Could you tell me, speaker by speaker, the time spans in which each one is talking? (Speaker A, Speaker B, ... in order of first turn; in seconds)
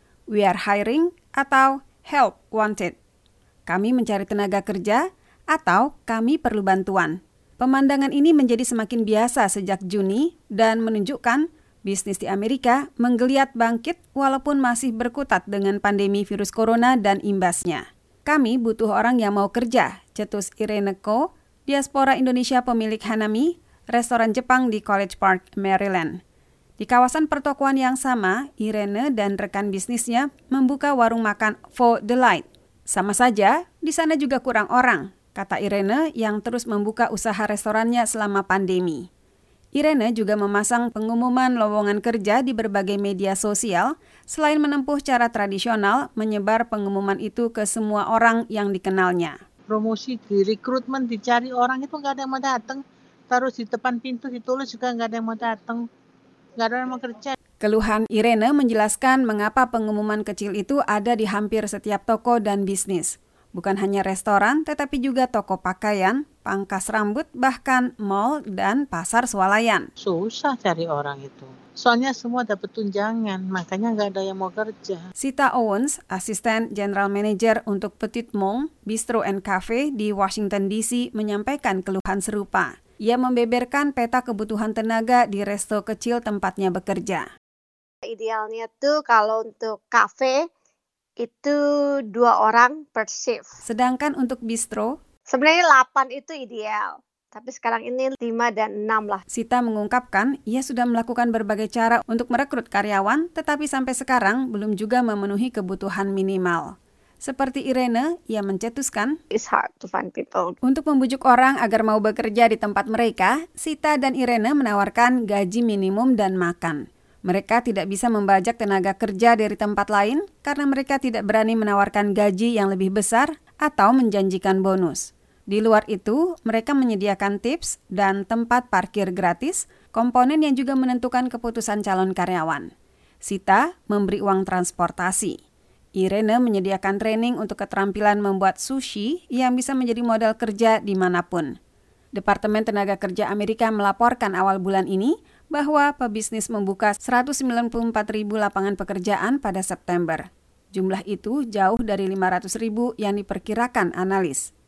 Speaker A: 0.3-3.0, 3.7-26.2, 26.8-39.0, 39.8-49.4, 57.6-69.9, 75.2-87.2, 93.6-94.9, 99.3-109.2, 110.6-132.7, 133.2-135.4, 136.0-141.5, 142.2-154.5
Speaker B: 49.7-55.8, 56.6-57.4, 70.0-75.0
Speaker C: 88.0-90.4, 91.2-91.6, 92.1-93.6, 95.3-99.2, 109.3-110.5